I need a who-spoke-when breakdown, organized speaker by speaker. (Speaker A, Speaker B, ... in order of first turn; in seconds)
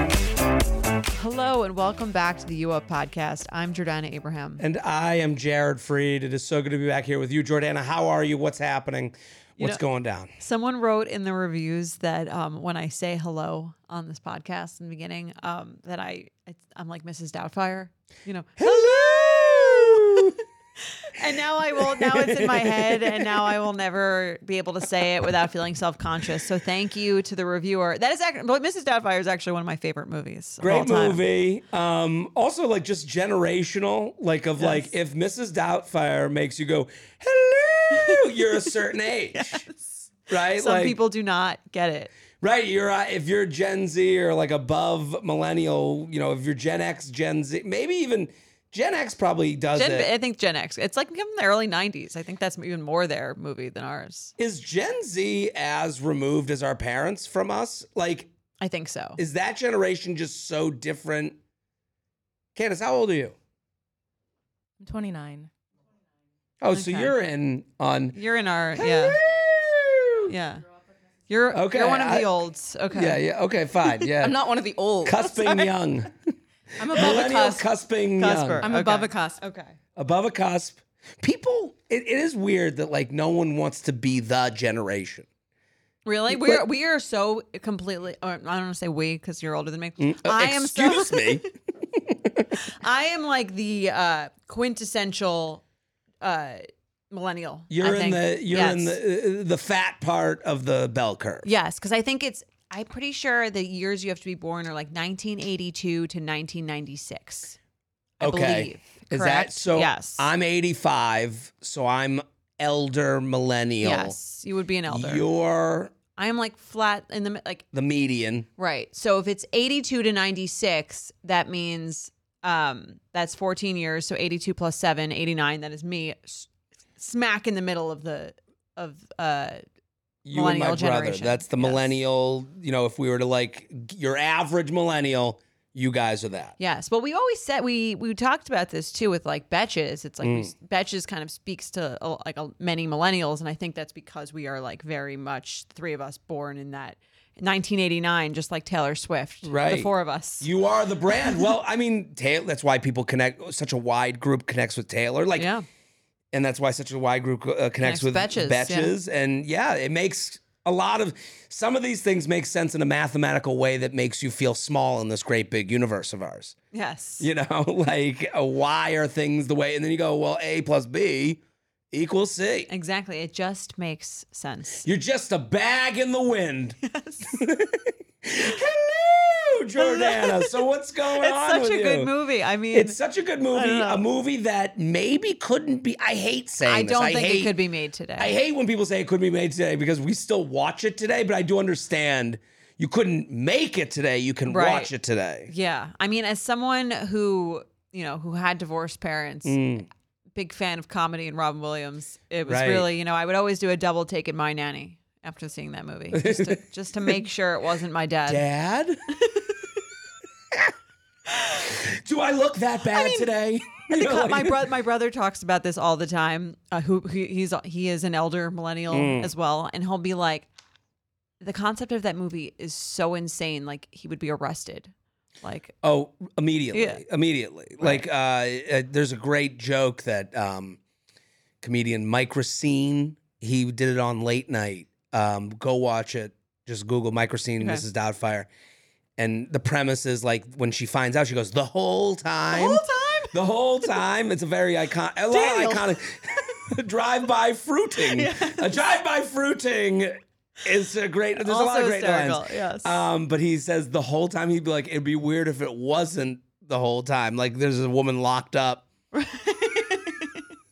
Speaker A: 1.1-4.6, 10.4-20.2, 21.0-31.2, 34.6-34.9, 39.3-42.1, 49.7-54.3, 58.6-59.2, 66.7-67.1, 68.1-69.2, 70.2-70.6, 71.3-73.2, 76.9-77.5, 78.2-79.7, 86.0-91.5, 92.7-95.6, 96.2-99.0, 101.4-107.6, 108.2-110.3, 113.8-115.2, 116.2-117.6, 118.6-129.6, 130.3-131.9, 136.6-150.5, 155.4-155.6, 157.8-158.9, 166.7-167.3, 172.7-174.8, 176.8-177.4, 179.8-180.6, 181.1-183.0, 183.5-184.0, 186.6-188.3, 194.5-194.9, 195.5-199.6, 200.3-208.4, 212.9-220.5, 221.4-225.7, 226.7-227.0, 242.5-243.4, 245.3-246.4, 248.0-248.8, 251.4-253.0, 259.1-260.4
Speaker B: 4.6-10.3, 18.6-20.4, 21.8-23.5, 30.6-39.6, 40.3-41.0, 42.4-50.1, 54.4-58.3, 59.2-61.4, 62.5-63.3, 66.6-68.2, 68.8-70.3, 71.5-72.3, 72.9-74.5, 75.0-76.3, 76.9-78.7, 80.0-85.3, 86.3-86.7, 90.0-92.6, 97.7-101.5, 108.2-114.2, 114.9-115.9, 117.7-118.5, 130.2-136.5, 140.2-140.5, 149.4-149.9, 150.4-155.5, 156.3-166.5, 167.2-171.4, 171.9-172.7, 174.8-176.8, 177.3-182.1, 182.7-187.6, 188.2-195.5, 199.4-199.9, 202.4-202.9, 206.1-207.1, 208.3-209.0, 211.5-214.7, 218.9-219.3, 225.8-230.8, 231.6-238.5, 239.2-258.9
Speaker C: 64.8-65.5, 74.1-75.6, 76.8-77.6, 78.6-79.4